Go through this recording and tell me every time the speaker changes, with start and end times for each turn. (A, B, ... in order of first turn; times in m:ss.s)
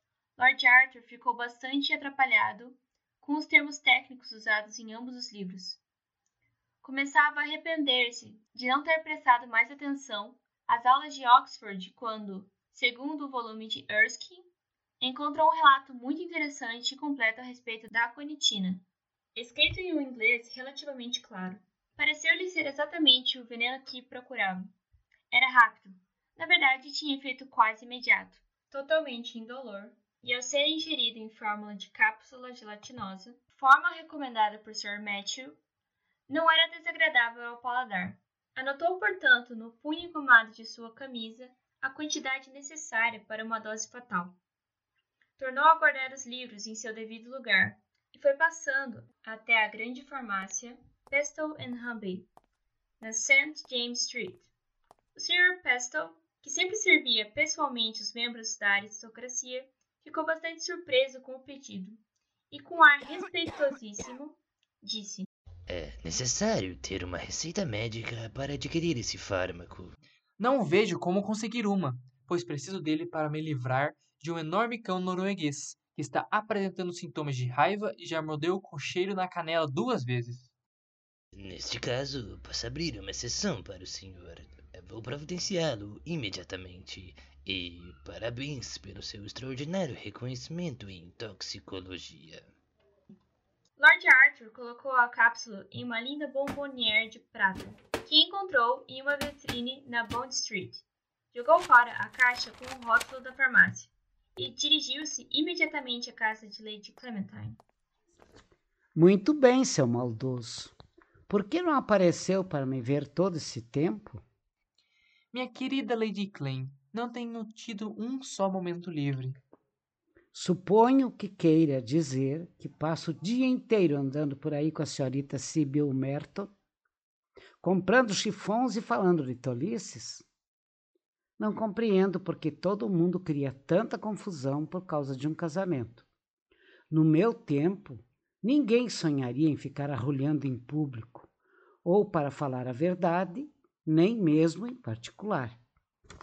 0:00.4-0:05.8 A
0:06.8-0:14.5 A
0:15.0-0:18.8 A
0:19.4-0:24.7 A
0:25.3-0:35.6 A
0:36.3-0:44.4 A
0:45.4-0:52.3 A
0:53.0-0:54.5 A
0:55.1-1:05.3 A
1:05.7-1:09.8 B
1:10.4-1:20.5 C
1:21.4-1:32.4 B
1:33.8-1:47.6 A
1:49.0-1:50.8 D
1:51.3-1:54.2 D
1:55.3-1:59.4 C
2:00.3-2:06.5 D
2:07.6-2:10.2 D
2:11.4-2:16.0 D
2:16.9-2:21.3 D
2:21.8-2:25.6 D